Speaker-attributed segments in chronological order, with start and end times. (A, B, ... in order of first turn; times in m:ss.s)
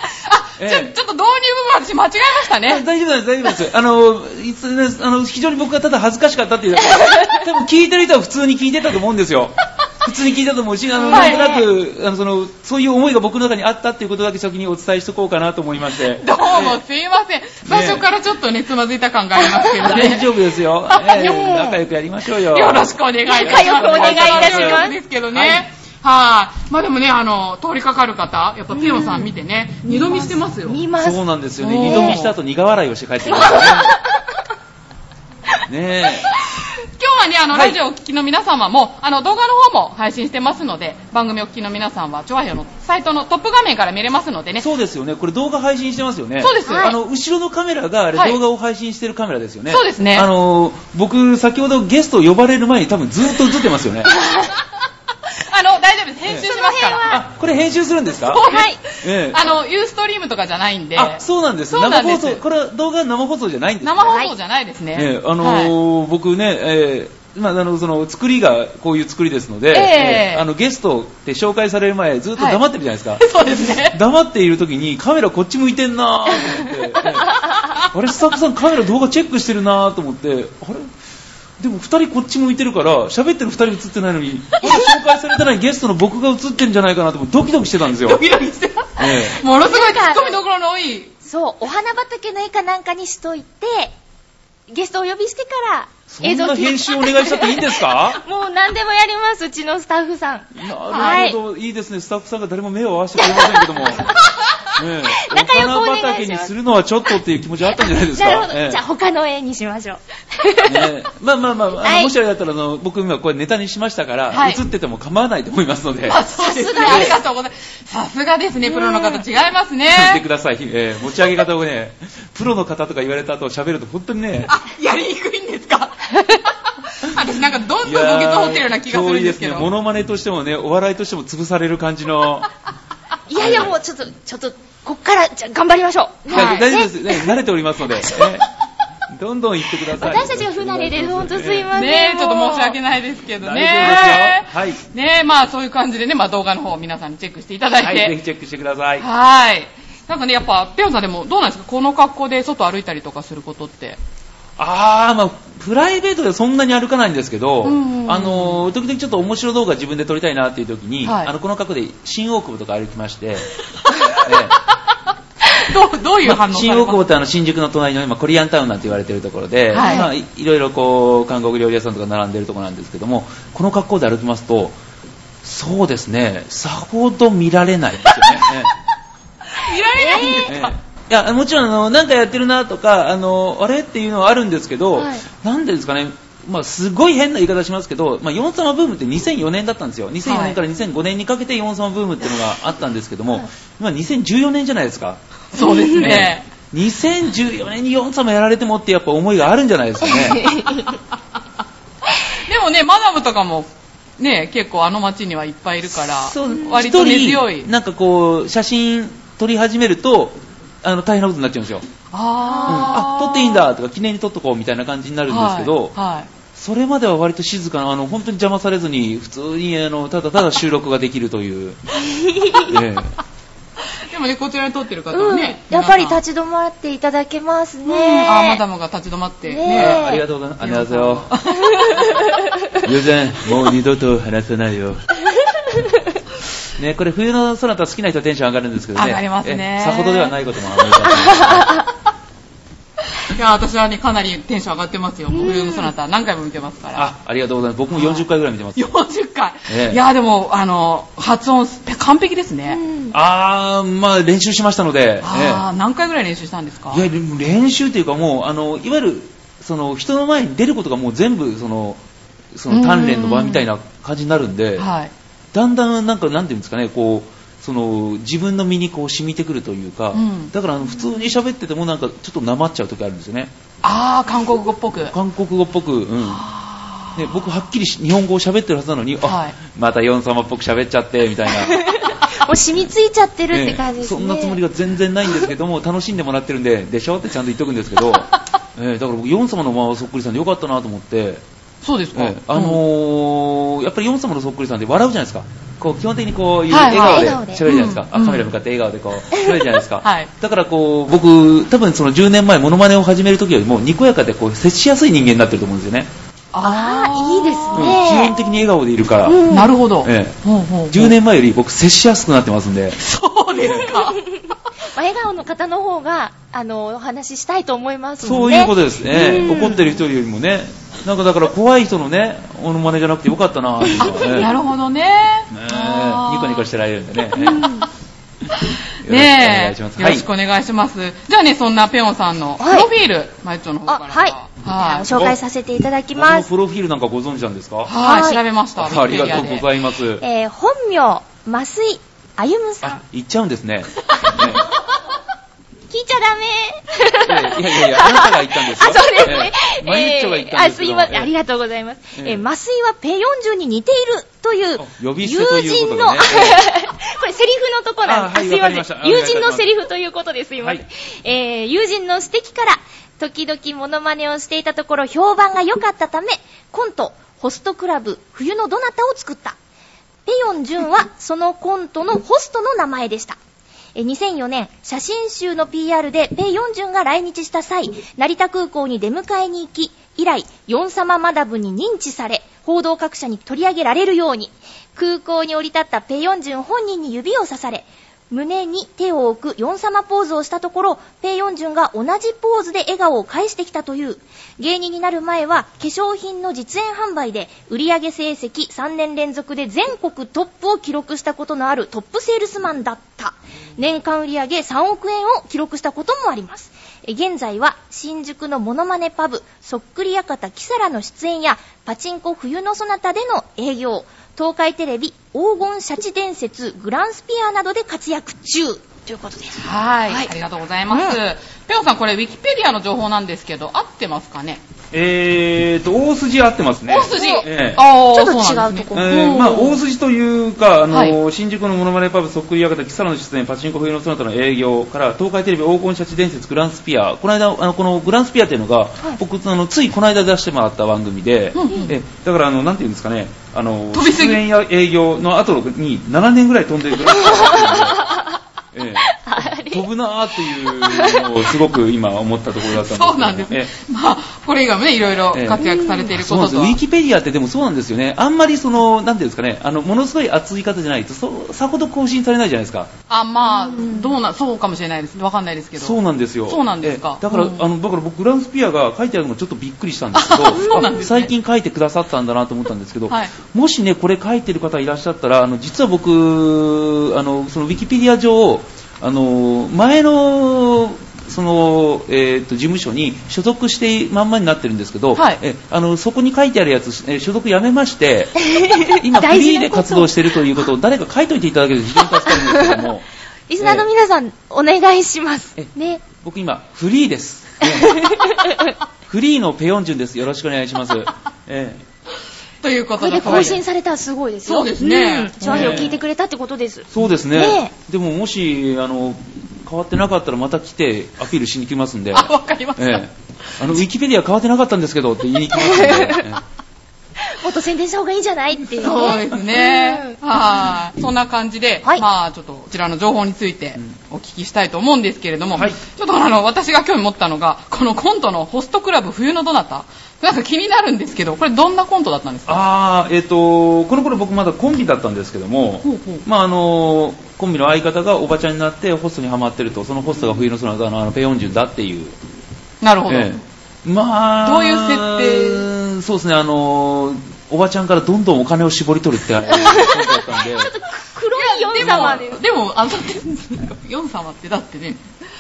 0:00.1-0:02.9 A
0:00.6-0:00.9 B
0:02.6-0:16.8 B
0:11.0-0:11.6 A
0:11.1-0:11.6 C
0:16.1-0:20.3 A
0:17.6-0:18.0 B
0:19.4-0:19.7 C
0:19.8-0:25.6 B
0:20.9-0:21.4 A
0:21.1-0:21.8 C
0:22.5-0:30.8 A
0:23.3-0:25.0 C
0:28.7-0:29.3 C
0:29.8-0:31.2 C
0:31.0-0:34.0 B
0:31.6-0:32.3 A
0:31.7-0:32.2 C
0:33.3-0:34.4 C
0:35.7-0:36.3 B
0:36.8-0:44.7 A
0:37.5-0:37.8 B
0:44.6-0:54.2 B
0:46.4-0:46.9 A
0:46.7-0:47.0 C
0:49.7-0:50.3 A
0:54.2-0:54.5 C
0:55.3-0:57.1 A
0:56.4-0:57.2 C
0:57.1-0:59.5 B
0:58.3-1:02.4 A
0:58.4-0:58.8 C
1:00.9-1:04.1 B
1:03.8-1:05.7 A
1:04.0-1:04.3 C
1:04.9-1:13.3 B
1:09.7-1:10.4 A
1:13.2-1:14.0 A
1:13.9-1:20.9 B
1:17.4-1:17.9 A
1:21.6-1:28.2 B
1:24.6-1:24.9 C
1:28.0-1:31.1 A
1:29.0-1:29.4 B
1:29.5-1:30.4 C
1:31.2-1:34.0 C
1:34.7-1:41.4 C
1:36.1-1:38.2 B
1:40.6-1:44.1 B
1:43.2-1:46.5 C
1:44.8-1:48.8 B
1:47.8-1:50.9 C
1:50.6-1:56.2 B
1:51.8-1:52.1 C
1:54.3-1:54.6 A
1:56.0-2:00.2 A
1:56.4-1:57.2 C
1:58.7-1:59.2 C
1:59.9-2:04.5 B
2:04.5-2:06.3 A
2:06.9-2:09.7 A
2:07.8-2:12.5 B
2:13.3-2:17.4 C
2:13.3-2:13.8 B
2:16.3-2:16.7 A
2:16.3-2:18.5 B
2:18.0-2:18.4 C
2:19.1-2:21.7 B
2:19.9-2:22.8 C
2:21.7-2:28.2 A
2:23.4-2:24.8 B
2:23.8-2:24.1 C
2:27.8-2:29.1 B
2:29.0-2:34.0 A
2:34.6-2:43.5 B
2:37.6-2:38.7 A
2:41.0-2:41.3 A
2:43.8-2:44.3 A
2:44.2-2:44.6 B
2:45.6-2:47.0 A
2:46.2-2:54.8 B
2:49.7-2:50.1 A
2:49.8-2:50.1 C
2:55.4-2:58.7 B
2:59.5-3:00.7 A
3:00.0-3:00.5 C
3:00.4-3:15.2 B
3:05.0-3:05.2 C
3:10.2-3:10.6 A
3:15.5-3:16.5 A
3:15.6-3:15.9 C
3:16.0-3:20.6 B
3:20.4-3:20.9 C
3:22.2-3:27.7 A
3:25.9-3:31.8 B
3:32.1-3:33.7 A
3:32.4-3:33.0 C
3:32.7-3:36.0 B
3:35.3-3:36.3 A
3:36.6-3:41.8 B
3:42.1-3:42.8 C
3:42.6-3:43.2 B
3:44.1-3:46.2 A
3:45.1-3:48.6 C
3:47.8-3:50.1 A
3:49.5-3:50.2 C
3:49.7-3:51.3 B
3:50.6-3:52.3 A
3:51.7-3:52.4 C
3:52.8-3:55.1 B
3:56.8-4:01.8 B
3:59.0-4:00.4 A
4:01.4-4:01.8 C
4:03.1-4:07.1 A
4:05.3-4:05.9 C
4:07.0-4:08.9 B
4:07.9-4:12.8 A
4:09.7-4:10.0 B
4:12.7-4:13.1 C
4:13.1-4:15.7 B
4:15.2-4:17.0 A
4:16.9-4:22.0 B
4:22.5-4:24.9 B
4:22.7-4:23.7 A
4:24.8-4:25.1 A
4:25.5-4:33.5 B
4:30.1-4:30.5 A
4:33.8-4:35.2 A
4:35.1-4:36.5 B
4:36.2-4:37.5 A
4:37.2-4:42.1 B
4:39.2-4:39.6 A
4:41.6-4:44.6 C
4:43.5-4:51.4 B
4:51.8-4:52.8 A
4:52.2-5:06.1 B
4:56.7-4:58.5 A
4:56.9-4:57.7 C
5:00.0-5:00.3 A
5:06.5-5:07.9 A
5:06.6-5:08.4 C
5:07.8-5:09.4 B
5:09.2-5:09.7 C
5:09.5-5:11.2 A
5:10.0-5:10.4 B
5:10.9-5:13.0 B
5:13.0-5:14.3 A
5:13.6-5:13.9 B
5:13.9-5:19.8 C
5:18.2-5:24.5 B
5:24.0-5:26.7 A
5:25.5-5:27.7 B
5:27.4-5:27.9 C
5:28.6-5:35.3 A
5:29.0-5:30.3 B
5:32.6-5:32.9 C
5:33.9-5:36.5 C
5:35.1-5:35.4 B
5:36.1-5:38.0 B
5:37.9-5:39.7 A
5:38.0-5:38.4 C
5:38.8-5:40.2 B
5:40.2-5:43.0 C
5:42.8-5:44.7 B
5:45.9-6:09.6 C
5:47.2-5:51.3 B
5:52.2-5:52.4 B
5:54.8-5:56.7 B
5:58.0-5:59.7 B
6:10.3-6:13.4 C
6:14.0-7:00.3 C
6:59.6-7:04.6 A
7:00.9-7:01.2 C
7:04.9-7:07.8 B
7:06.9-7:09.6 A
7:07.1-7:07.4 C
7:08.1-7:09.8 C
7:08.9-7:28.2 B
7:10.9-7:11.2 A
7:21.5-7:22.0 A
7:23.9-7:24.4 A
7:27.1-7:28.3 C
7:28.7-7:33.7 B
7:29.1-7:29.9 C
7:30.6-7:31.4 C
7:32.8-7:36.8 A
7:35.3-7:42.9 B
7:35.6-7:36.1 C
7:43.1-7:47.7 A
7:43.6-7:44.1 C
7:45.8-8:13.0 B
7:50.1-7:51.3 A
7:53.1-7:53.3 A
8:05.2-8:05.4 A
8:08.4-8:10.1 C
8:12.3-8:12.9 C
8:13.5-8:16.0 C
8:13.6-8:13.9 B
8:15.6-8:18.1 B
8:17.6-8:18.8 C
8:19.1-8:21.8 B
8:22.6-8:23.6 A
8:23.0-8:27.7 C
8:23.2-8:23.6 B
8:24.4-8:26.0 A
8:25.4-8:26.0 B
8:26.9-8:36.4 B
8:32.1-8:33.1 A
8:35.6-8:36.2 C
8:37.2-8:40.2 C
8:38.7-8:52.7 A
8:45.5-8:45.8 B
8:52.5-9:02.2 B
8:55.8-8:56.2 A
9:02.8-9:03.4 A
9:03.1-9:10.7 B
9:04.4-9:05.7 A
9:09.5-9:12.4 C
9:11.4-9:15.0 A
9:11.8-9:12.2 B